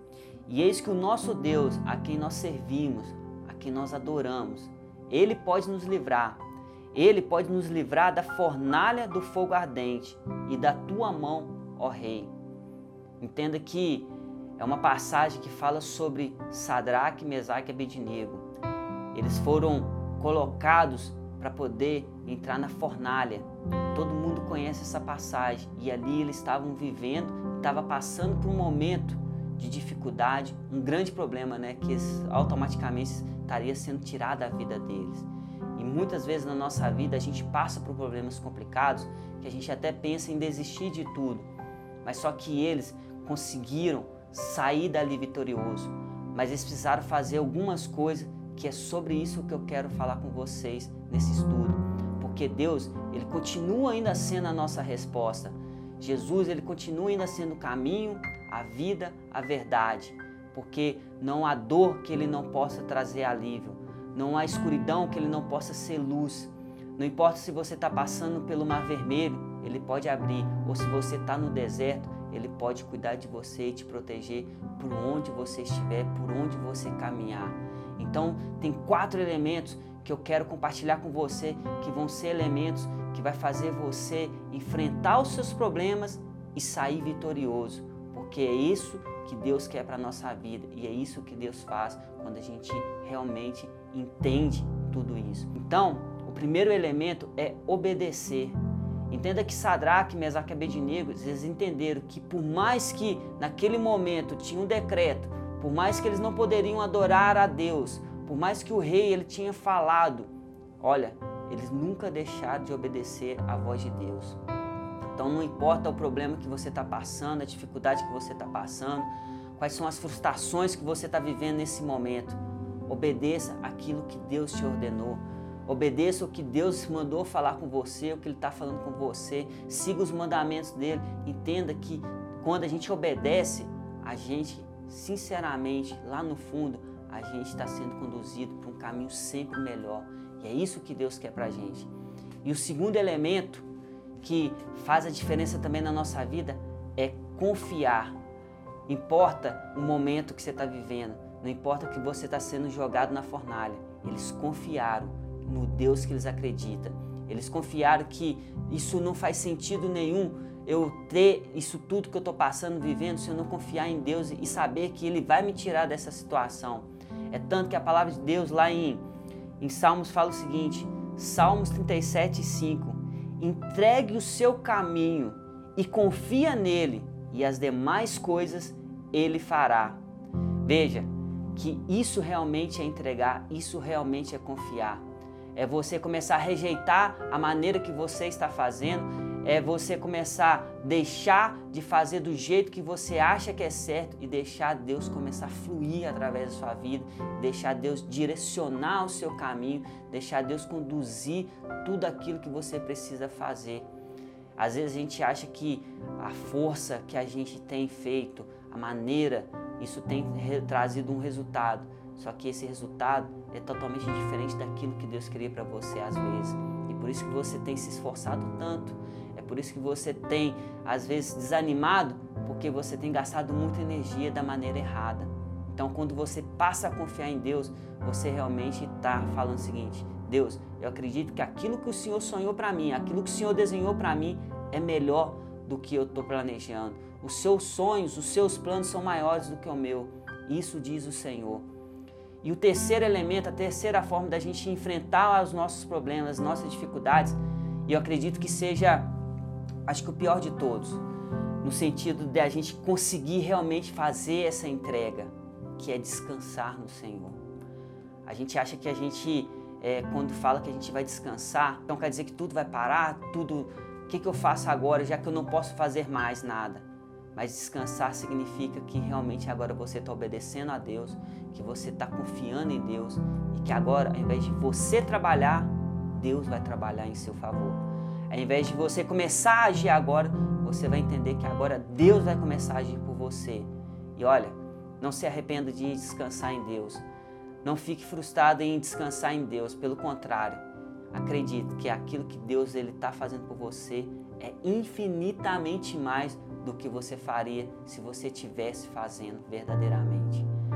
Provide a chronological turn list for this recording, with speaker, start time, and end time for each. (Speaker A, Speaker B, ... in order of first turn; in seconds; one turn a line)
Speaker A: 0.5-12.3
Speaker A: 13.2-18.4
Speaker A: 19.1-41.5
Speaker A: 42.0-98.6
Speaker A: 99.1-114.4
Speaker A: 115.1-141.9
Speaker A: 142.4-143.7
Speaker A: 144.2-148.2
Speaker A: 148.9-169.0
Speaker A: 169.6-180.0
Speaker A: 180.6-203.9
Speaker A: 204.6-241.7
Speaker A: 242.4-249.1
Speaker A: 249.8-251.0
Speaker A: 251.6-257.4
Speaker A: 258.2-287.0
Speaker A: 287.6-300.5